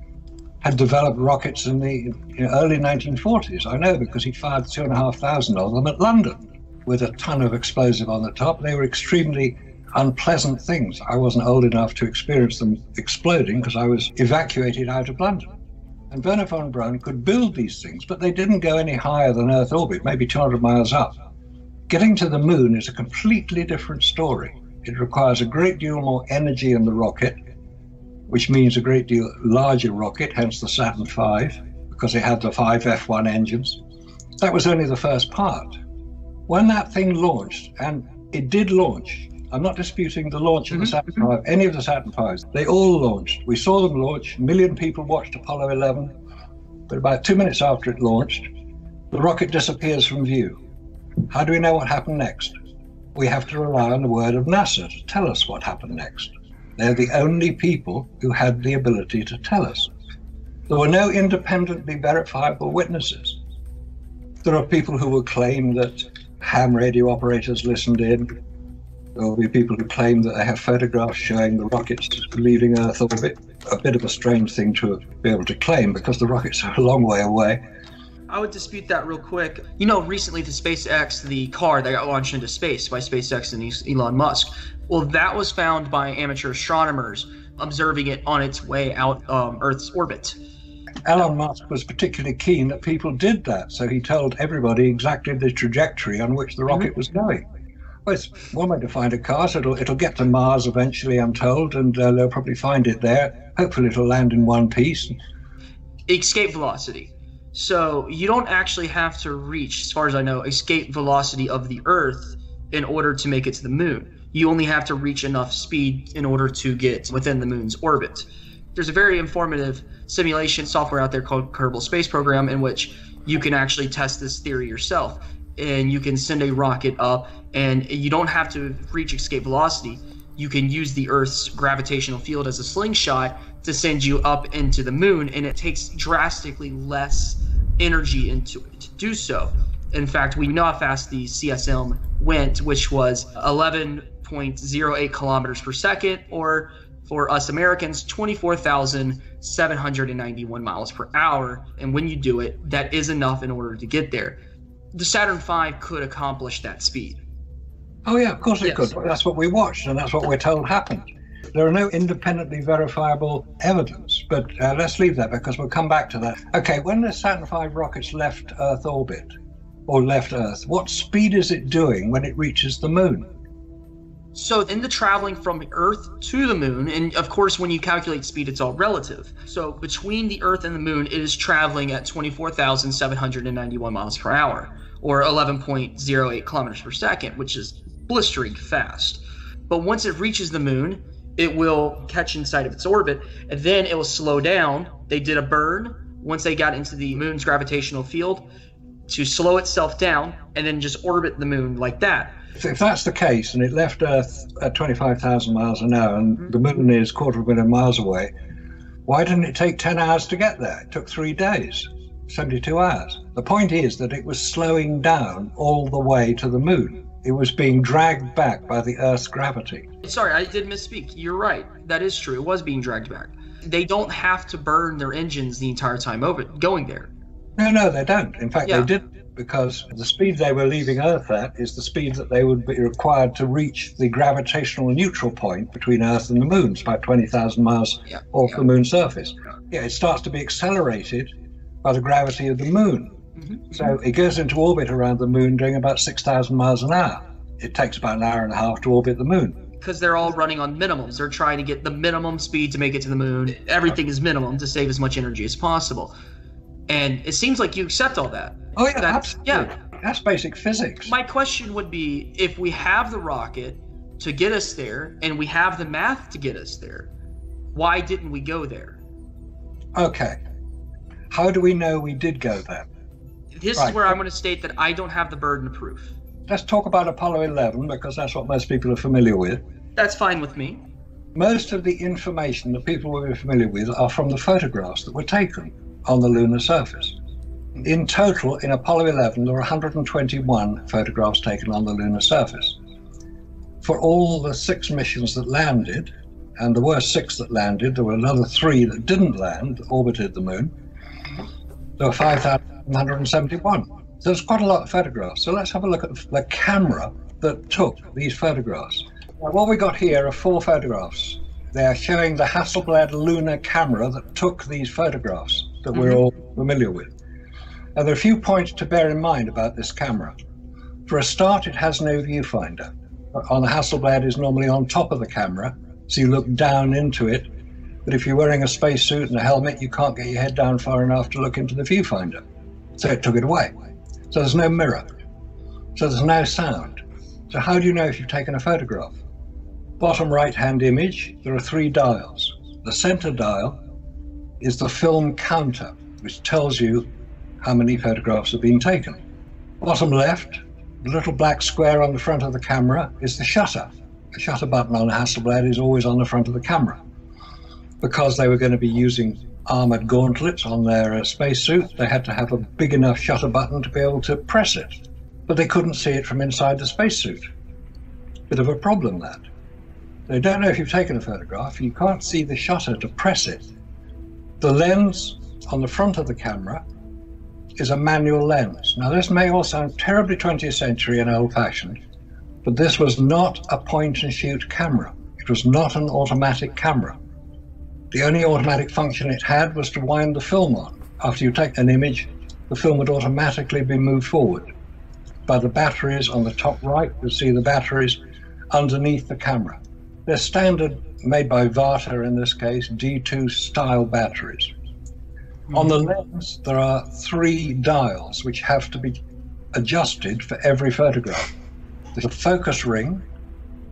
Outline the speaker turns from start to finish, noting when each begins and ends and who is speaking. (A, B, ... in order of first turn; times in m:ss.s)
0:00.6-0:15.5 A
0:16.1-0:21.2 A
0:21.9-0:27.4 A
0:28.3-0:33.8 A
0:34.4-0:35.8 A
0:36.5-0:46.1 A
0:46.9-0:48.5 A
0:49.1-0:50.6 A
0:51.3-0:52.5 A
0:53.1-0:59.9 A
1:00.7-1:03.4 A
1:04.4-1:08.3 A
1:09.1-1:17.6 A
1:18.3-1:30.4 B
1:31.0-1:37.4 A
1:38.0-1:45.1 A
1:46.1-2:34.4 B
2:34.9-2:37.2 B
2:38.0-2:49.3 A
2:49.9-2:53.3 A
2:54.3-3:18.5 B
3:19.1-3:22.4 B
3:22.5-3:28.3 A
3:29.0-3:39.8 A
3:40.0-3:47.1 B
3:47.6-4:01.3 A
4:01.8-4:03.1 A
4:03.7-4:09.6 A
4:09.8-4:16.1 B
4:16.9-4:19.7 B
4:18.8-4:21.1 A
4:21.0-4:27.1 B
4:27.7-4:29.0 B
4:30.0-4:30.4 A
4:31.3-4:32.9 A
4:33.5-4:36.1 B
4:33.8-4:34.1 A
4:36.5-4:39.6 A
4:40.0-4:40.8 B
4:41.3-4:47.2 A
4:47.8-4:52.8 A
4:53.8-5:00.7 A
5:02.0-5:17.1 A
5:17.9-5:20.3 A
5:21.1-5:27.5 A
5:28.0-5:32.4 A
5:33.0-5:33.7 A
5:34.3-5:35.1 A
5:35.9-5:39.1 A
5:40.0-5:43.8 A
5:44.6-5:47.1 A
5:47.6-5:49.2 A
5:49.8-5:57.0 A
5:58.0-6:07.4 A
6:08.5-6:09.4 A
6:10.3-6:13.6 A
6:14.6-6:16.8 A
6:17.8-6:22.0 A
6:22.6-6:27.2 A
6:28.1-6:34.7 A
6:35.5-6:38.2 A
6:38.7-6:44.7 A
6:45.7-6:49.2 A
6:49.7-6:51.5 A
6:52.1-6:53.2 A